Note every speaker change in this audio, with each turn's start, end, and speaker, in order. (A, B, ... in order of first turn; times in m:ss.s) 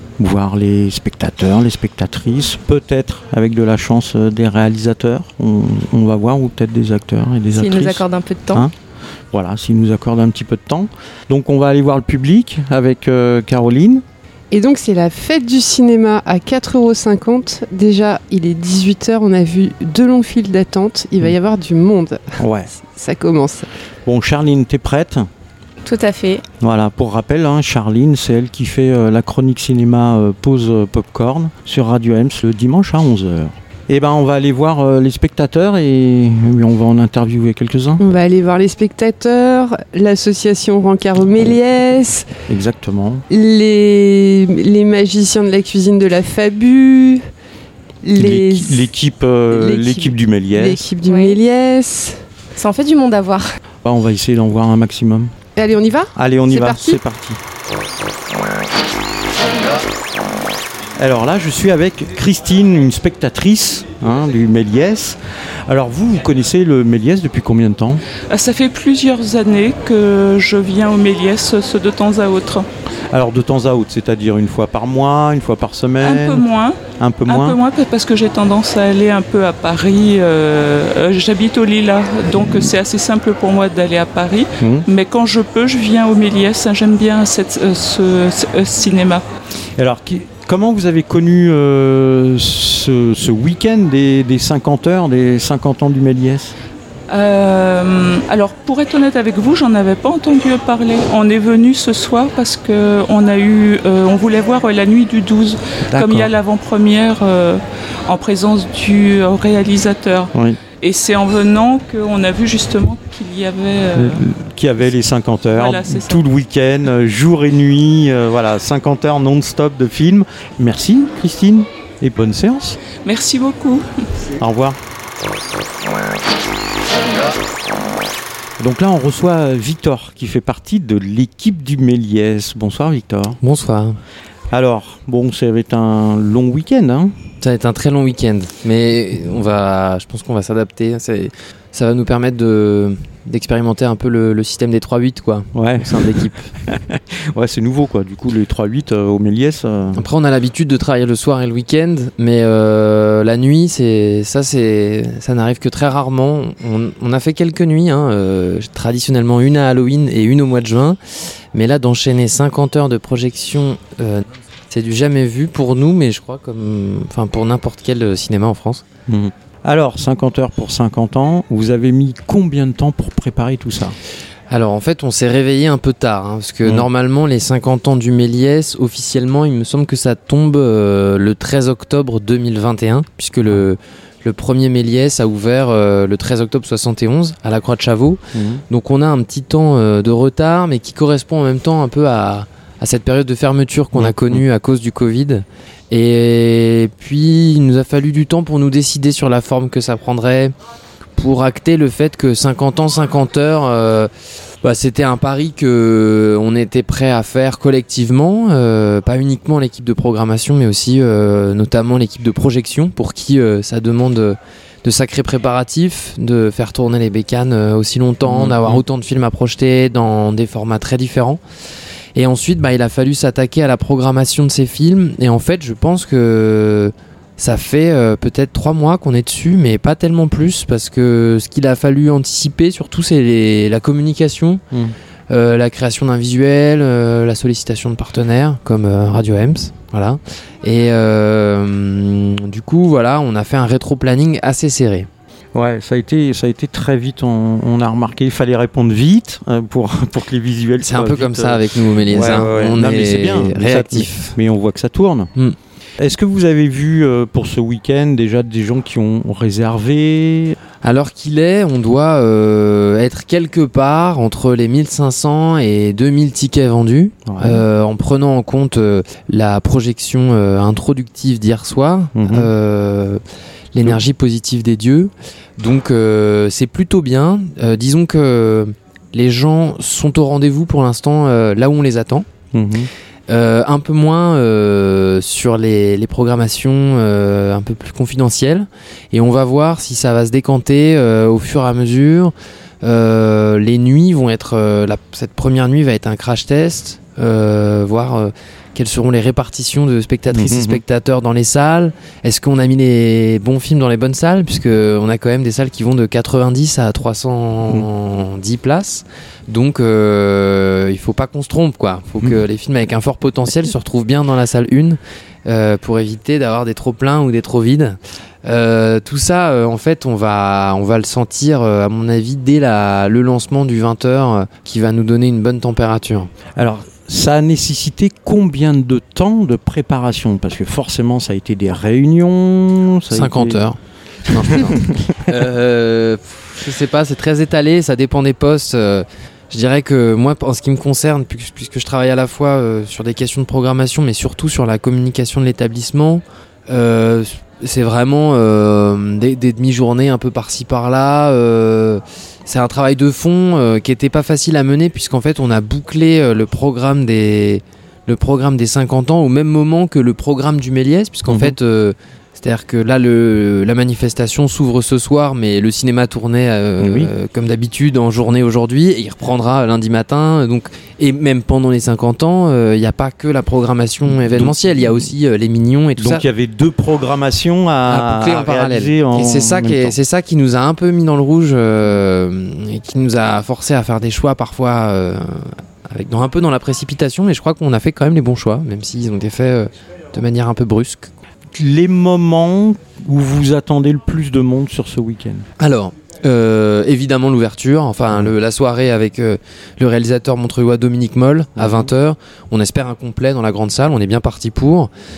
0:00.2-0:08.8 A
0:07.5-0:08.6 B
0:09.3-0:14.0 A
0:14.5-0:23.7 C
0:22.4-0:22.7 A
0:24.0-0:25.3 A
0:25.8-0:26.4 B
0:26.6-0:38.0 A
0:38.0-0:42.3 C
0:42.5-0:43.2 A
0:43.3-0:47.3 C
0:48.0-0:48.9 C
0:48.2-0:50.9 A
0:49.5-0:52.2 C
0:51.0-0:51.4 B
0:52.6-0:53.6 B
0:53.8-0:55.3 A
0:55.6-0:57.0 C
0:56.1-0:57.4 A
1:01.0-1:08.0 A
1:08.3-1:12.7 D
1:13.1-1:16.4 A
1:16.0-1:29.3 D
1:17.0-1:17.6 A
1:24.6-1:24.9 A
1:29.8-1:36.6 A
1:37.1-1:54.3 D
1:45.9-1:46.3 A
1:50.3-1:50.6 A
1:54.0-2:02.8 A
1:55.5-1:56.2 D
2:03.0-2:03.9 D
2:04.4-2:04.8 A
2:08.6-2:13.4 A
2:13.4-2:14.0 E
2:14.5-2:17.2 A
2:17.4-2:26.4 E
2:25.5-2:30.0 A
2:30.0-2:41.0 E
2:41.5-2:48.8 E
2:49.1-2:54.0 A
2:54.5-3:20.5 E
3:08.3-3:08.6 A
3:13.9-3:14.4 A
3:21.2-3:24.1 E
3:24.6-3:41.4 E
3:38.2-3:38.8 A
3:42.2-3:54.6 E
3:55.3-4:05.1 E
4:05.5-4:15.3 A
4:10.8-4:14.4 E
4:16.0-4:20.6 A
4:20.8-4:33.2 E
4:27.3-4:27.6 A
4:32.2-4:32.5 A
4:33.7-4:42.3 E
4:42.5-4:42.9 A
4:43.3-5:26.3 E
5:00.3-5:00.8 A
5:26.6-5:33.7 A
5:33.1-6:16.2 E
5:34.3-5:35.2 A
6:01.3-6:01.6 A
6:06.8-6:07.1 A
6:14.1-6:15.1 A
6:16.0-6:20.0 A
6:17.9-6:31.1 E
6:31.5-6:35.5 A
6:35.6-6:44.9 E
6:41.6-6:41.9 A